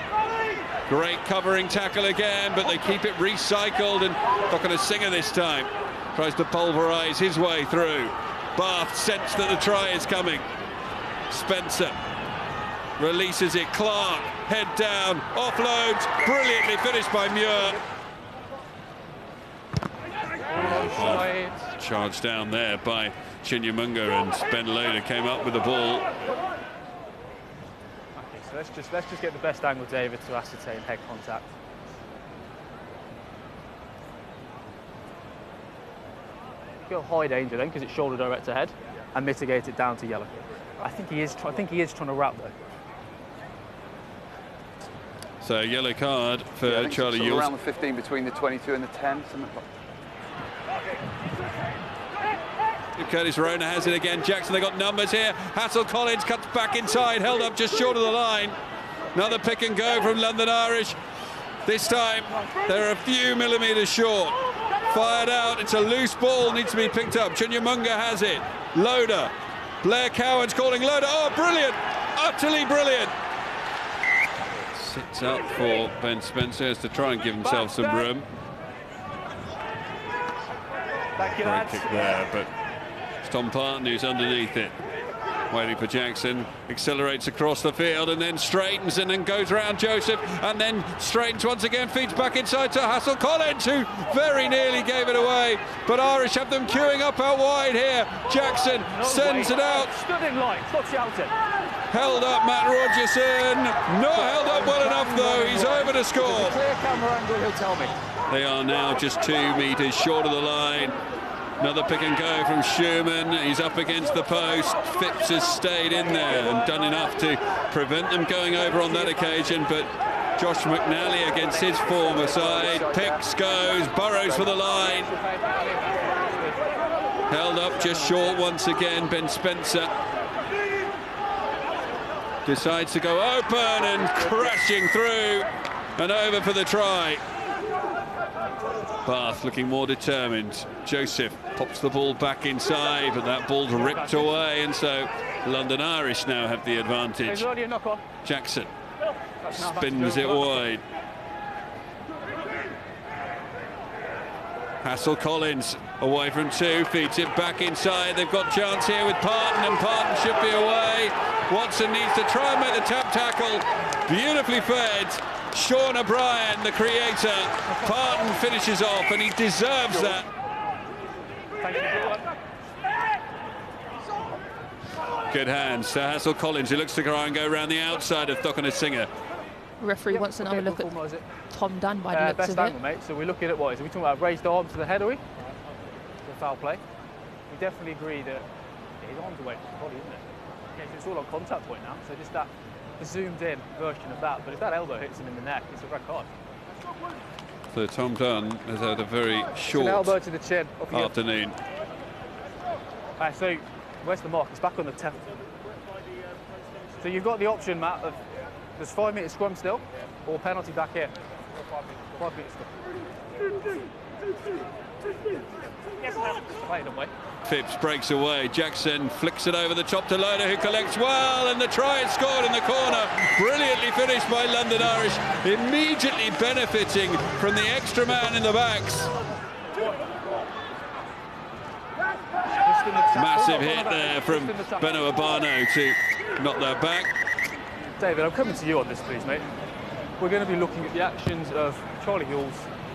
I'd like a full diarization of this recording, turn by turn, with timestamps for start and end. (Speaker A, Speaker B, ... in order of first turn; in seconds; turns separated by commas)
Speaker A: 0.9-10.4, Speaker A: 11.3-12.0, Speaker A: 13.0-17.8, Speaker B: 20.5-21.6, Speaker A: 20.5-26.1, Speaker B: 28.1-31.5, Speaker B: 36.9-42.5, Speaker A: 45.4-47.5, Speaker C: 46.6-49.6, Speaker A: 53.0-58.6, Speaker A: 59.1-61.0, Speaker A: 61.6-64.3, Speaker A: 64.9-69.3, Speaker A: 69.8-73.1, Speaker A: 74.6-78.3, Speaker B: 77.4-78.1, Speaker B: 81.2-82.2, Speaker A: 81.4-82.5, Speaker A: 83.2-84.7, Speaker A: 85.5-99.9, Speaker B: 98.9-101.3, Speaker A: 101.9-106.6, Speaker B: 104.2-108.0, Speaker A: 108.3-111.0, Speaker A: 111.6-125.1, Speaker B: 118.7-119.5, Speaker B: 125.0-126.7, Speaker A: 127.3-129.9, Speaker A: 132.4-137.2, Speaker A: 139.0-147.5, Speaker B: 143.7-144.4, Speaker B: 147.2-148.1, Speaker A: 148.2-148.7, Speaker B: 149.4-150.7, Speaker A: 149.5-150.8, Speaker A: 154.8-170.3, Speaker B: 171.6-172.2, Speaker A: 175.3-179.1, Speaker D: 179.8-180.9, Speaker B: 180.1-181.3, Speaker D: 181.5-182.8, Speaker B: 182.1-185.2, Speaker B: 186.2-186.8, Speaker B: 187.5-188.5, Speaker B: 189.0-190.2, Speaker B: 190.7-196.3, Speaker A: 197.7-200.2, Speaker B: 199.7-201.1, Speaker A: 200.9-201.6, Speaker B: 203.2-205.3, Speaker B: 207.0-208.2, Speaker B: 208.8-211.1, Speaker B: 212.1-212.8, Speaker B: 216.2-217.1, Speaker A: 217.4-229.1, Speaker B: 232.6-235.1, Speaker A: 233.1-237.1, Speaker B: 238.0-239.4, Speaker B: 240.2-242.7